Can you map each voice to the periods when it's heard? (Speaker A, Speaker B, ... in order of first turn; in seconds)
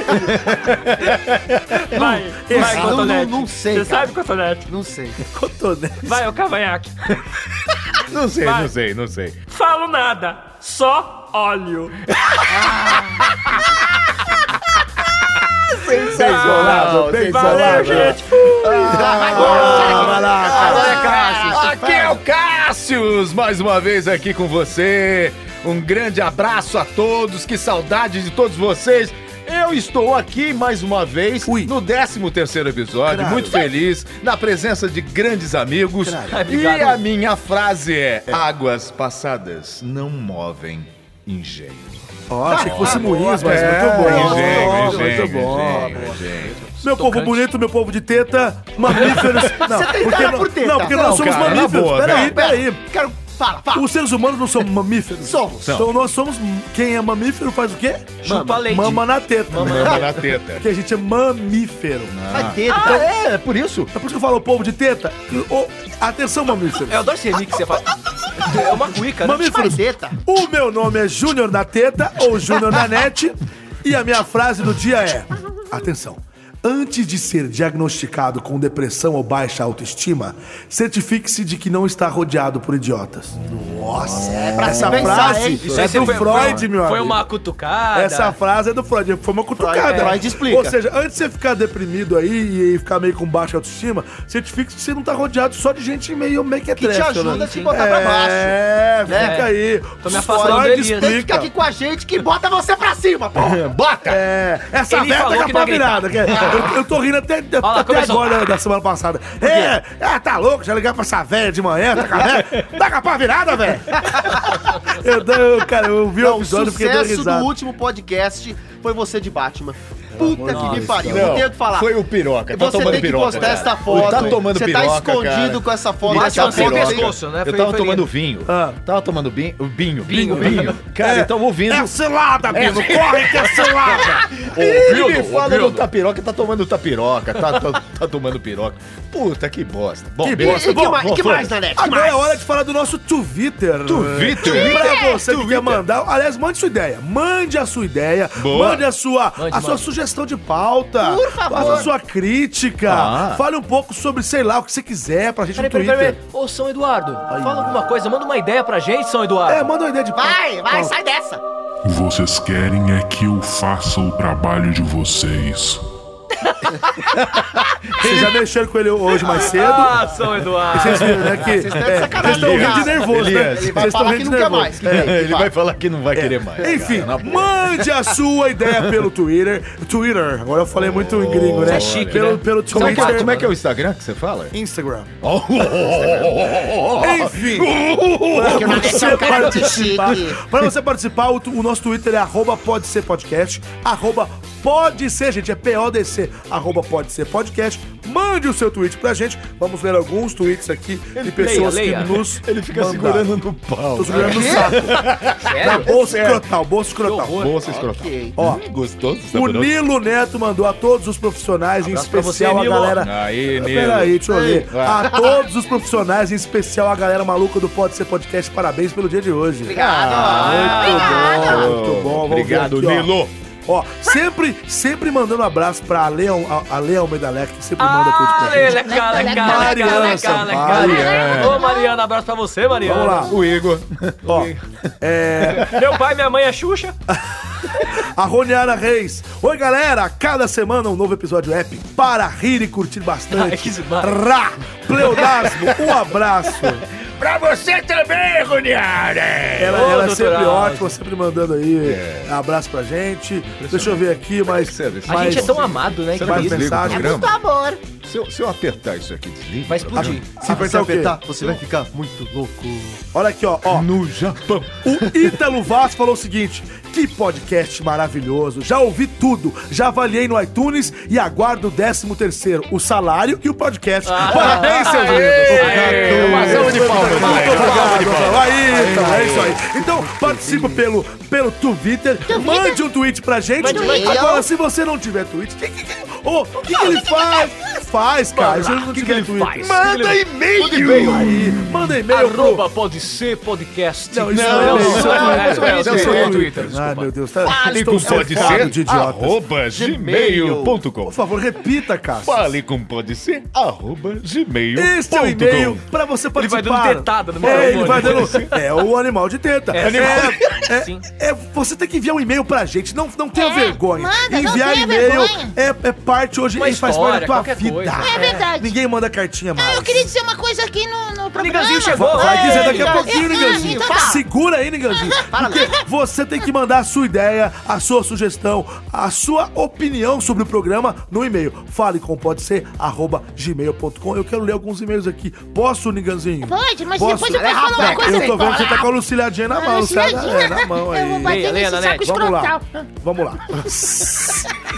Speaker A: 0.2-1.8, 8.1-9.4, 15.7-42.0, 42.6-46.5, 48.9-49.6, 50.8-52.4, 55.6-55.9, 59.5-60.7, 62.1-63.9, 84.0-86.6, 103.3-104.2, 112.1-112.7, 121.0-131.9, 132.5-141.6, 143.8-144.9, 148.4-148.8, 151.5-151.8, 152.8-153.4, 167.1-168.4, 170.8-174.0, 174.8-177.8, 180.8-184.5, 185.2-190.1, 201.2-206.4, 207.4-209.7, 213.0-215.2, 219.7-223.3, 230.6-231.7, 233.3-234.5, 235.4-235.8, 245.2-245.8, 247.0-249.8, 251.8-252.3, 253.6-257.4, 258.0-260.2, 263.7-264.9, 274.4-279.5, 289.6-291.9, 294.3-296.6, 297.4-301.1, 302.1-305.8, 307.4-308.5, 309.8-310.6
Speaker B: 1.8-4.7, 6.0-6.9, 8.4-8.7, 9.5-12.0, 16.1-19.0
Speaker C: 1.9-3.2, 5.3-6.2, 16.1-22.2, 31.4-31.7, 33.0-33.7, 36.0-36.3, 42.3-46.0, 46.8-52.8, 53.7-62.1, 63.9-67.1, 69.2-87.2, 87.9-101.5, 104.0-117.5, 120.1-121.5, 128.5-128.8, 130.3-134.3, 140.2-141.0, 141.7-156.2, 157.3-157.9, 159.4-160.9, 168.0-170.0, 170.7-174.8, 176.1-183.5, 184.5-185.1, 185.8-187.8, 188.3-203.4, 203.9-207.4, 208.4-208.6, 209.3-219.8, 220.3-223.1, 223.7-231.1, 232.8-233.3, 234.2-235.7, 237.8-246.8, 249.6-257.3, 260.4-261.2, 263.1-263.9, 264.8-289.8, 290.6-292.6, 294.1-299.4, 301.0-302.6, 304.7-320.1, 321.9-344.5
Speaker D: 2.5-5.2, 12.5-13.1, 18.7-21.1, 42.5-46.6, 49.6-53.9, 55.2-55.6, 58.3-58.6, 62.3-63.1, 69.5-70.2, 84.3-86.1, 89.5-90.8, 96.7-99.4, 100.1-103.6, 114.1-114.4, 116.2-121.9, 122.5-127.1, 140.3-142.4, 151.0-151.9, 160.1-161.4, 171.4-175.5, 176.6-177.0, 188.4-190.4, 204.1-204.7, 207.6-208.3, 214.3-215.4, 219.6-221.6, 256.9-257.8, 259.9-263.0, 275.6-280.8, 283.6-284.4, 297.4-299.0, 299.7-300.8, 322.4-324.2, 325.2-325.7, 337.3-338.5
Speaker E: 19.6-19.9, 20.5-21.6, 36.2-37.0, 46.6-47.4, 58.2-60.0, 66.9-69.5, 85.6-88.3, 89.8-90.2, 97.2-97.8, 99.1-99.5, 100.0-101.2, 104.9-106.5, 107.6-108.4, 109.5-109.7, 120.4-121.0, 122.8-124.4, 126.1-128.1, 130.1-130.8, 134.5-135.9, 144.5-145.8, 149.4-149.8, 155.6-159.7, 169.4-171.3, 181.7-183.5, 201.4-202.2, 205.4-205.9, 207.0-207.6, 211.9-213.0, 220.2-221.4, 227.8-233.3, 234.2-234.6, 235.5-236.9, 243.3-244.2, 249.7-250.9, 255.1-256.8, 259.7-260.4, 274.0-278.0, 288.3-291.2, 292.1-297.1, 306.3-308.5, 309.7-311.0, 316.6-318.4, 321.3-323.0, 341.2-342.3
Speaker F: 144.7-145.2, 228.4-232.1, 232.8-233.3, 257.0-257.8, 282.3-282.8, 283.6-284.2, 313.4-315.5, 318.0-318.8, 319.5-324.2, 324.9-325.2, 336.4-338.9, 339.5-342.6
Speaker G: 161.8-165.8